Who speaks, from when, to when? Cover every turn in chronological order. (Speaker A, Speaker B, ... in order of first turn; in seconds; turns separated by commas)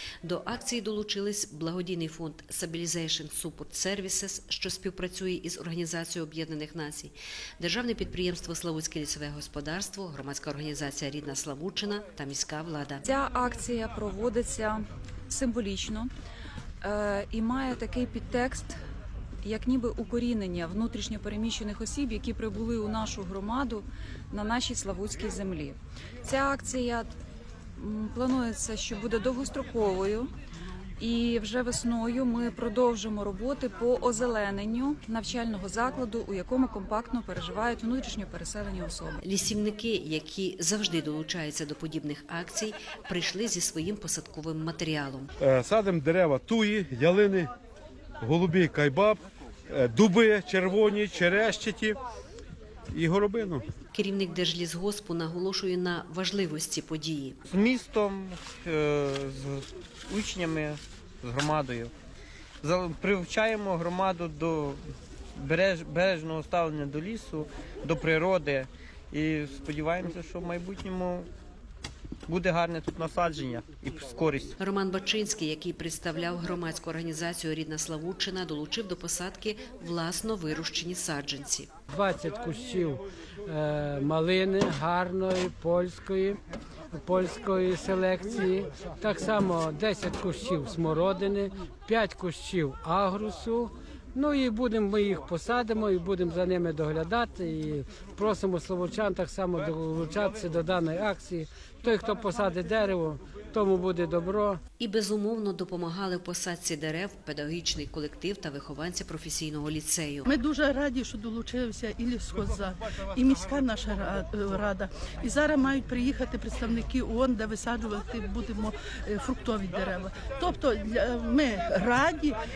Speaker A: 0.2-13.0, Speaker B: 13.0-16.1, Speaker B: 16.8-18.8, Speaker B: 19.4-27.1, Speaker B: 27.8-30.3, Speaker B: 31.0-39.2, Speaker A: 39.2-45.3, Speaker C: 45.4-47.5, Speaker C: 48.2-52.0, Speaker C: 52.9-53.7, Speaker A: 53.9-57.4, Speaker D: 57.5-61.9, Speaker D: 62.6-64.8, Speaker D: 65.3-71.3, Speaker D: 72.3-74.5, Speaker A: 74.6-81.7, Speaker E: 81.9-86.4, Speaker E: 86.9-104.6, Speaker A: 104.8-110.2, Speaker F: 110.3-122.4